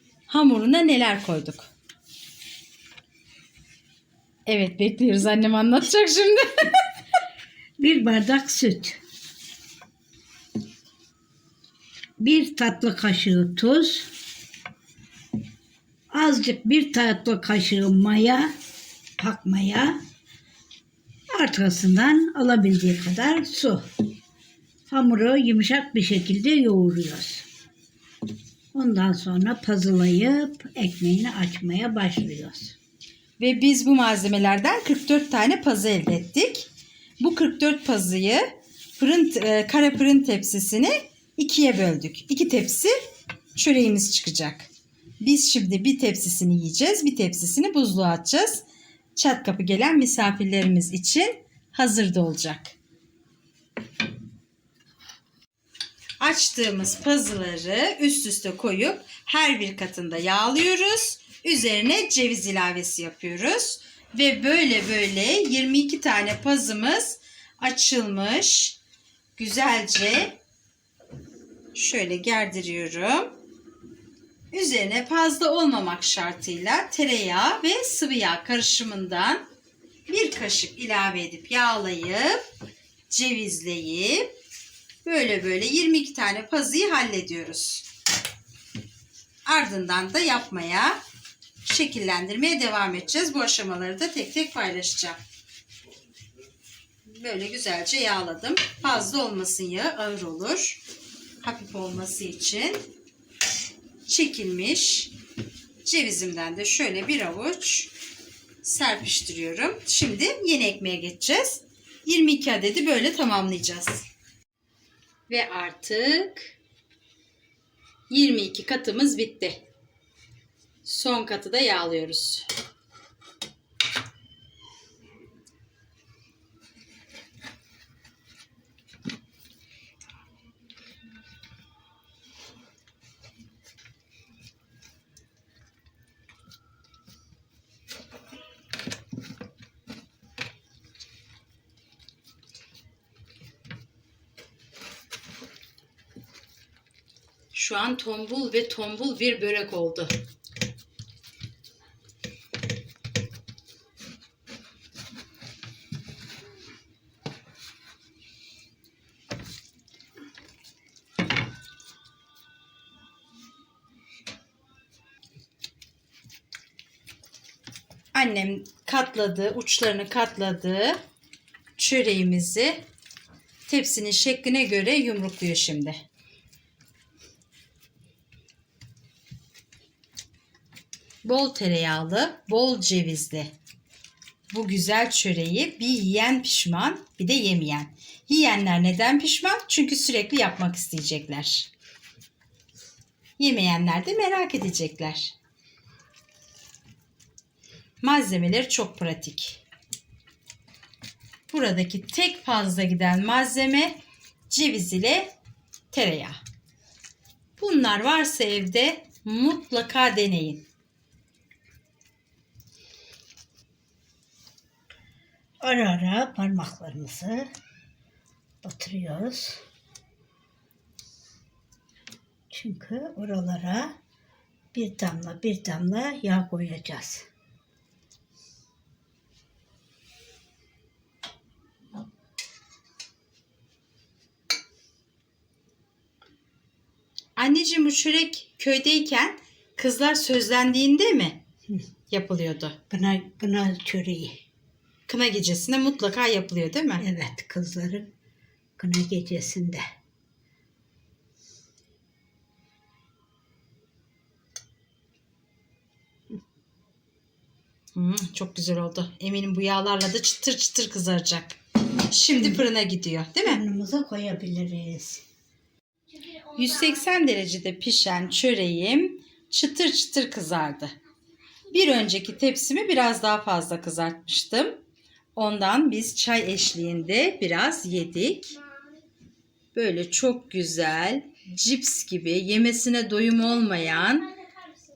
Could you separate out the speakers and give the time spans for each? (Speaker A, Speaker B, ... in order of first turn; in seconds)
Speaker A: 0.3-1.7, 4.5-6.9, 33.4-36.7, 37.2-42.9, 43.6-44.7, 45.2-48.6, 49.1-52.7, 56.2-68.8, 69.4-70.4, 71.7-73.3, 74.5-79.4, 80.1-82.4, 83.1-84.3, 85.0-87.8, 89.5-91.0, 91.6-95.2, 97.1-100.8, 101.4-102.8, 104.1-105.1, 105.8-107.9, 108.6-114.0, 115.3-116.5, 118.1-119.6, 120.8-122.5, 147.5-150.1, 168.1-171.0, 171.8-172.8, 173.7-176.0, 181.2-183.5, 184.5-191.7, 193.4-195.3, 198.0-199.6, 201.5-205.3, 205.9-206.4, 207.6-210.7, 237.4-241.4, 242.1-242.8, 245.1-247.1, 257.9-261.6, 262.1-263.6, 266.5-270.9, 271.7-274.8, 275.4-278.6, 279.7-284.3
Speaker B: 7.8-9.0, 12.2-14.1, 16.1-18.5, 19.2-20.0, 21.3-23.8, 24.9-27.5, 28.7-32.8, 215.6-217.5, 218.6-219.6, 222.5-223.9, 224.7-227.3, 242.9-244.4, 247.0-248.1, 248.8-249.8, 262.4-262.6, 263.4-265.2